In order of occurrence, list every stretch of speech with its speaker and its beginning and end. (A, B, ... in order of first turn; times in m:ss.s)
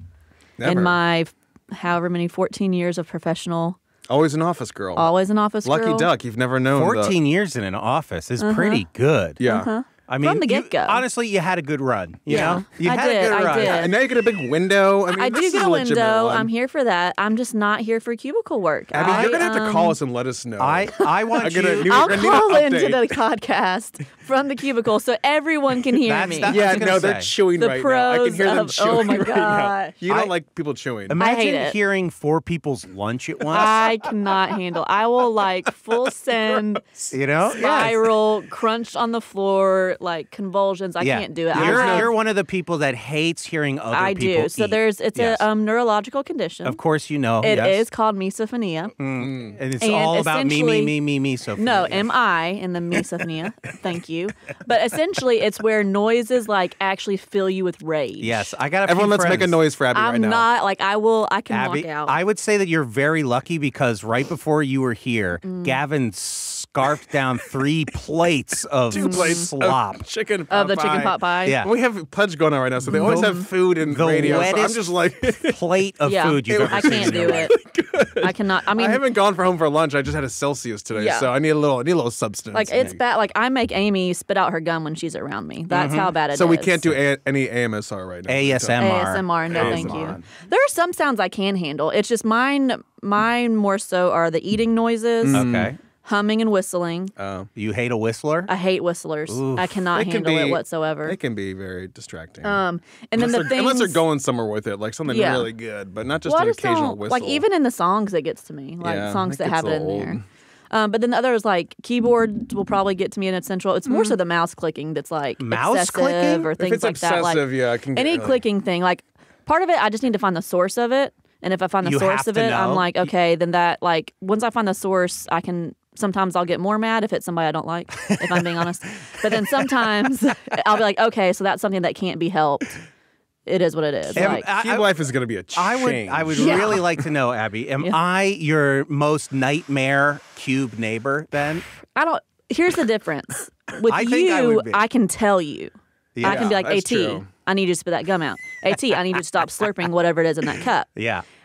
0:00.6-0:01.0 A
0:00.6-0:03.8 B
0:04.1-0:07.2 A
0:05.0-0:06.1 B
0:06.7-0:09.4 C
0:08.4-0:08.8 B
0:09.4-0:09.7 A
0:09.4-0:11.0 B
0:10.1-0:13.9 C
0:12.3-0:14.0 B
0:12.3-0:12.6 A
0:13.5-0:16.5 A
0:15.2-0:20.0 B
0:18.9-0:19.4 C
0:19.0-0:23.2 A
0:20.6-0:21.9 C
0:21.8-0:26.9 B
0:26.0-0:27.4 C
0:26.5-0:31.2 A
0:27.6-0:30.0 B
0:30.1-0:30.3 C
0:31.1-0:33.8 C
0:31.2-0:31.8 B
0:33.5-0:42.1 B
0:37.1-0:38.1 C
0:41.0-0:45.4 C
0:41.5-0:42.1 A
0:43.9-0:46.8 B
0:46.6-0:47.8 C
0:47.4-0:49.0 B
0:49.0-0:52.1 C
0:49.0-0:49.6 A
0:49.8-0:50.9 B
0:51.6-0:58.5 B
0:58.2-0:59.6 C
0:58.8-1:00.5 A
0:59.9-1:02.2 B
1:01.5-1:10.0 C
1:05.4-1:05.8 B
1:08.9-1:15.6 A
1:09.0-1:09.5 B
1:10.5-1:11.6 B
1:12.9-1:13.5 B
1:12.9-1:13.3 C
1:13.8-1:17.5 C
1:16.0-1:17.5 B
1:16.5-1:23.0 A
1:18.2-1:19.0 B
1:21.0-1:21.3 B
1:22.5-1:26.8 B
1:25.7-1:26.1 C
1:26.3-1:30.2 A
1:28.3-1:30.2 C
1:28.8-1:35.4 B
1:35.2-1:35.7 A
1:35.3-1:35.8 C
1:36.0-1:37.1 B
1:37.2-1:37.5 A
1:37.6-1:38.5 C
1:38.5-1:41.2 B
1:39.3-1:39.8 C
1:39.9-1:42.6 A
1:42.4-1:44.0 B
1:43.2-1:47.4 A
1:45.1-1:45.5 B
1:46.3-1:50.2 B
1:48.8-1:50.2 A
1:50.7-2:12.8 B
1:53.9-1:54.2 A
1:55.4-1:56.5 C
1:56.6-1:58.4 A
2:01.8-2:02.9 C
2:08.1-2:08.4 C
2:13.5-2:14.4 B
2:14.2-2:15.0 C
2:14.2-2:17.0 A
2:15.6-2:21.6 C
2:16.4-2:16.8 B
2:22.0-2:30.9 B
2:23.8-2:24.8 C
2:26.2-2:26.6 C
2:26.2-2:27.3 A
2:31.0-2:31.2 C